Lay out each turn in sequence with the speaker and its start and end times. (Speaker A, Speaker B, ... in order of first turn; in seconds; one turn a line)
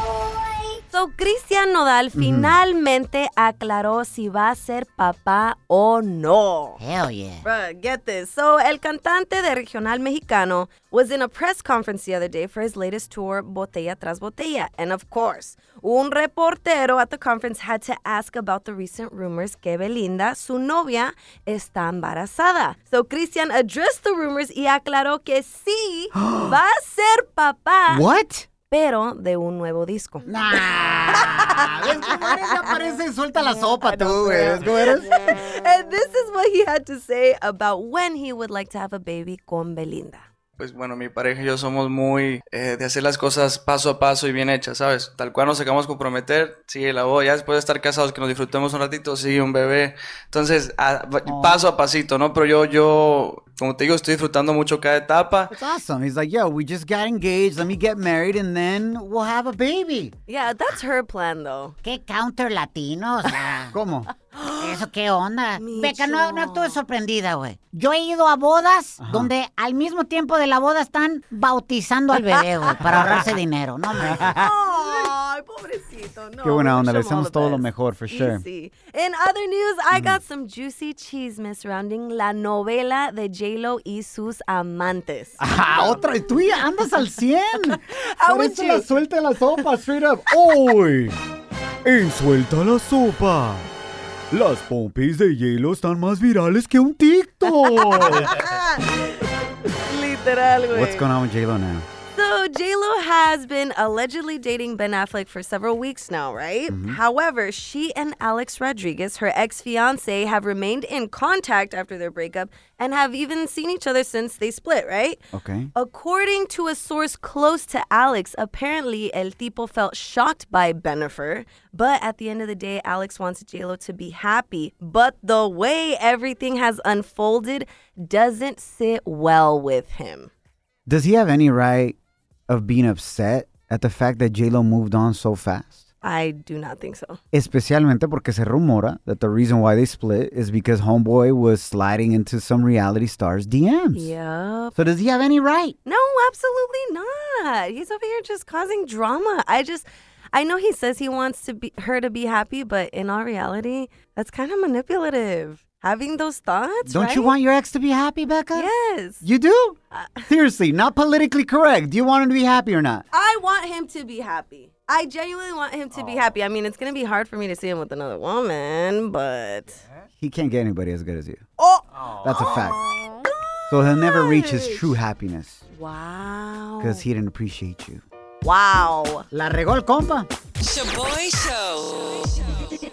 Speaker A: 0.9-6.8
Speaker B: 2.1-2.5
Speaker C: 6.8-7.4
Speaker A: 7.4-28.1
Speaker B: 26.1-26.5
Speaker B: 27.9-28.5
Speaker A: 28.6-30.3
Speaker C: 30.3-34.5
Speaker A: 31.2-32.8
Speaker B: 31.7-35.1
Speaker A: 33.9-40.3
Speaker D: 40.6-55.5
Speaker B: 51.2-51.6
Speaker B: 55.5-60.1
Speaker A: 60.3-61.8
Speaker C: 61.8-63.7
Speaker B: 63.7-64.1
Speaker A: 64.3-64.8
Speaker C: 64.6-74.5
Speaker A: 65.6-66.8
Speaker B: 69.0-69.3
Speaker A: 72.3-72.7
Speaker A: 74.1-86.5
Speaker B: 76.4-78.4
Speaker B: 79.9-80.2
Speaker B: 85.4-91.2
Speaker A: 87.7-88.9
Speaker B: 91.8-93.7
Speaker B: 94.3-98.4
Speaker A: 97.4-101.1
Speaker B: 100.7-101.8
Speaker A: 102.1-115.2
Speaker B: 106.7-107.0
Speaker B: 115.3-115.7
Speaker A: 115.7-130.3
Speaker B: 130.9-131.9
Speaker B: 132.5-135.8
Speaker A: 136.0-137.2
Speaker B: 137.3-144.1
Speaker A: 143.9-144.7
Speaker B: 144.7-145.8
Speaker A: 145.8-157.3
Speaker B: 156.9-158.7
Speaker A: 158.5-159.2
Speaker B: 159.2-163.0
Speaker A: 159.9-160.3
Speaker A: 163.1-169.8
Speaker B: 170.2-171.4
Speaker A: 171.6-174.9
Speaker B: 172.2-172.8
Speaker B: 173.7-175.6
Speaker A: 175.7-177.0
Speaker B: 176.8-178.0
Speaker A: 178.4-179.2
Speaker C: 179.3-180.3
Speaker E: 180.6-182.7